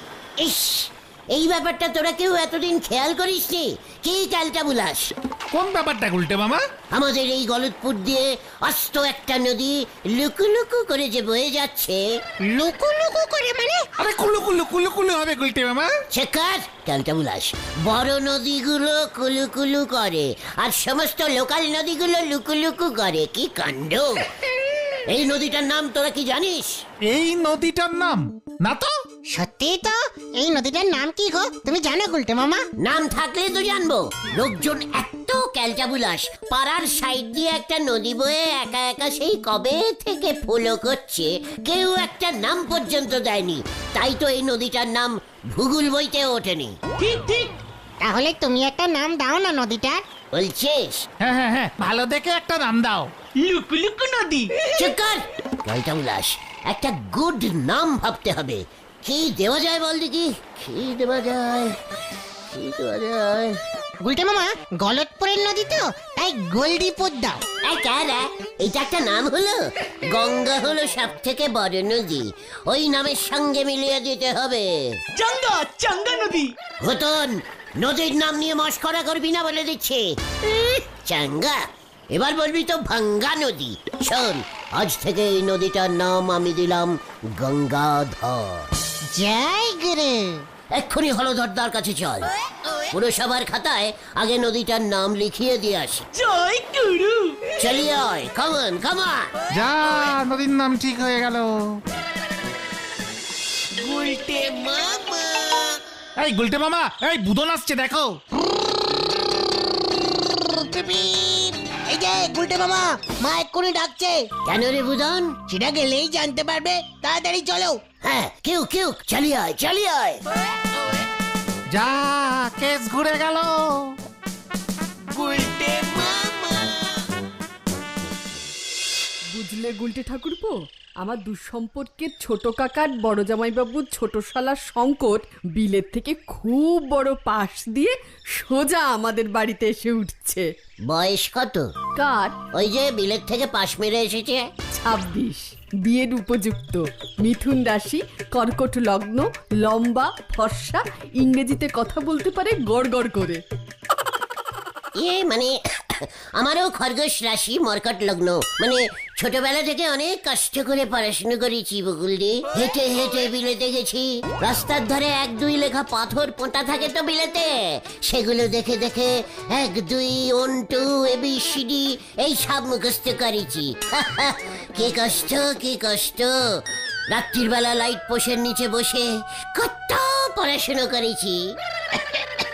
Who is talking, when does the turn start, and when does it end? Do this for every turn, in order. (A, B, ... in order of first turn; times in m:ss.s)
0:00.4-0:05.1 A
0:05.5-0:06.6 B
0:06.9-0:12.0 A
0:12.5-0:13.9 C
0:14.0-0:15.9 B
0:16.1-0:24.2 A
0:25.1-0:26.8 A
0:27.0-0:28.9 B
0:29.3-0:32.6 C
0:32.8-0:46.7 A
0:47.0-0:47.5 D
0:48.0-0:50.0 C
0:50.3-0:51.0 A
0:51.2-0:53.1 B
0:53.4-0:54.5 D
0:54.8-1:01.7 A
1:02.5-1:03.6 A
1:04.0-1:07.4 C
1:07.7-1:15.0 A
1:15.1-1:16.5 D
1:16.8-1:21.6 A
1:22.1-1:28.7 A
1:29.1-1:30.4 C
1:30.7-1:32.3 A
1:32.9-1:36.0 A
1:36.1-1:37.4 D
1:37.6-1:39.3 A
1:39.5-1:41.8 B
1:43.8-1:45.8 D
1:46.2-1:48.2 B
1:54.4-1:55.4 A
1:55.6-1:56.2 C
1:58.0-2:00.2 A
2:01.7-2:03.9 B
2:05.1-2:06.9 D
2:09.3-2:20.5 E
2:20.9-2:21.7 A
2:22.0-2:22.4 E
2:22.6-2:24.4 A
2:24.7-2:33.4 E
2:35.0-2:56.4 A
2:57.1-3:01.4 A